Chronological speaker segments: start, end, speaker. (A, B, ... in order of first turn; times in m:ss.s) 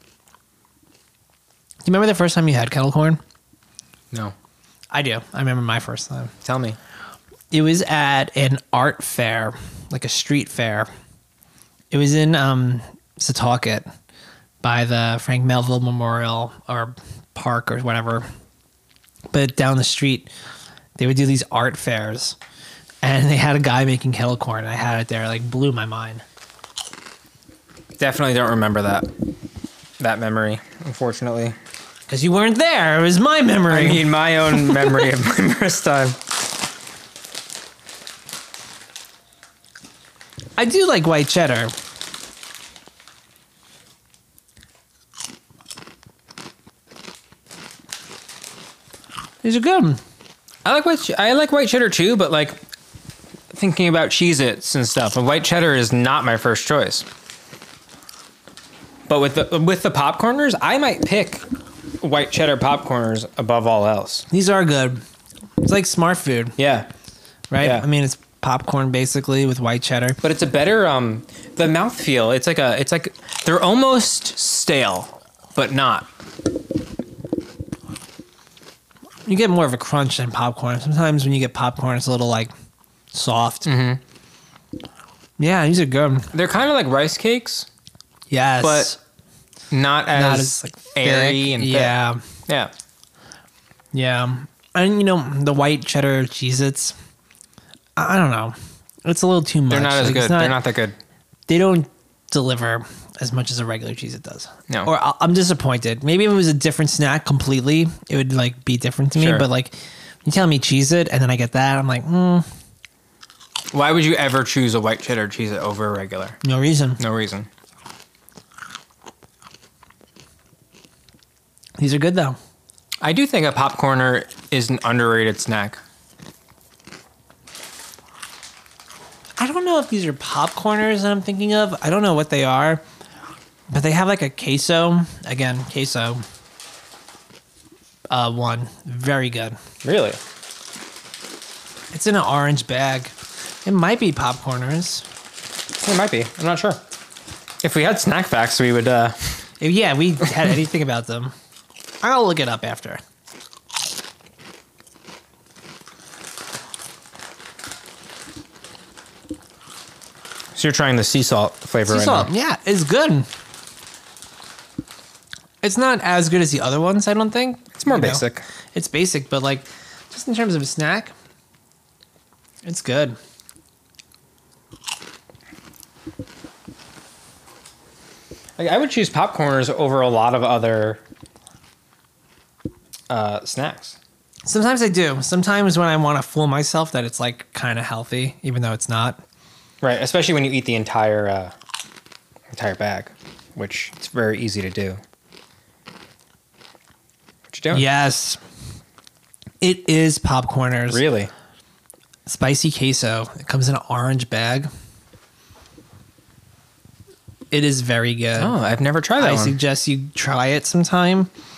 0:01.8-0:03.2 A
0:04.9-0:06.3 A
0:06.4-0:06.8 B
0:07.5-0:10.9 A
0:11.9-0:13.8 A
0:14.6-0:18.2 A
0:19.3-0:20.3 A
0:21.0-0:22.4 A
0:23.0-0:26.2 A
0:28.0-0:29.1 B
0:30.0-0:31.6 B
0:32.1-0:34.1 A
0:33.7-0:36.2 B
0:40.6-0:41.7 A
0:49.4-0:50.0 A
0:50.6-0:52.6 B
0:53.5-0:57.1 B
0:59.1-1:01.4 B
1:02.0-1:04.3 B
1:04.3-1:05.0 A
1:05.6-1:06.6 A
1:06.6-1:06.9 B
1:07.5-1:10.2 A
1:07.6-1:07.8 B
1:10.2-1:16.1 B
1:19.2-1:22.5 A
1:23.1-1:23.7 A
1:23.6-1:24.0 B
1:25.4-1:26.3 A
1:26.3-1:27.7 B
1:28.3-1:29.0 A
1:28.6-1:29.0 B
1:29.7-1:32.0 B
1:30.1-1:32.2 A
1:32.5-1:32.7 B
1:33.9-1:37.0 A
1:38.0-1:40.6 A
1:39.7-1:41.0 B
1:41.5-1:52.4 A
1:49.1-1:49.4 B
1:53.7-1:56.4 B
1:56.4-1:57.0 A
1:57.0-1:57.5 B
2:01.8-2:02.4 A
2:03.0-2:05.8 B
2:09.4-2:12.8 A
2:13.7-2:16.2 A
2:18.1-2:19.6 A
2:19.8-2:20.2 B
2:21.9-2:23.1 A
2:23.6-2:25.0 A
2:25.8-2:26.8 B
2:27.6-2:29.4 B
2:29.6-2:31.3 A
2:32.0-2:33.0 A
2:40.5-2:42.3 B
2:41.9-2:43.3 A
2:45.6-2:51.1 A
2:47.8-2:48.4 B
2:52.6-2:53.2 A
2:58.6-3:01.0 B
3:03.1-3:04.0 B
3:04.4-3:09.2 A
3:09.8-3:11.5 B
3:12.5-3:15.0 B
3:17.5-3:17.8 B
3:17.7-3:18.4 A
3:19.6-3:21.0 A
3:20.9-3:21.3 B
3:22.2-3:24.7 A
3:27.5-3:28.5 A
3:28.4-3:29.6 B
3:29.2-3:31.3 A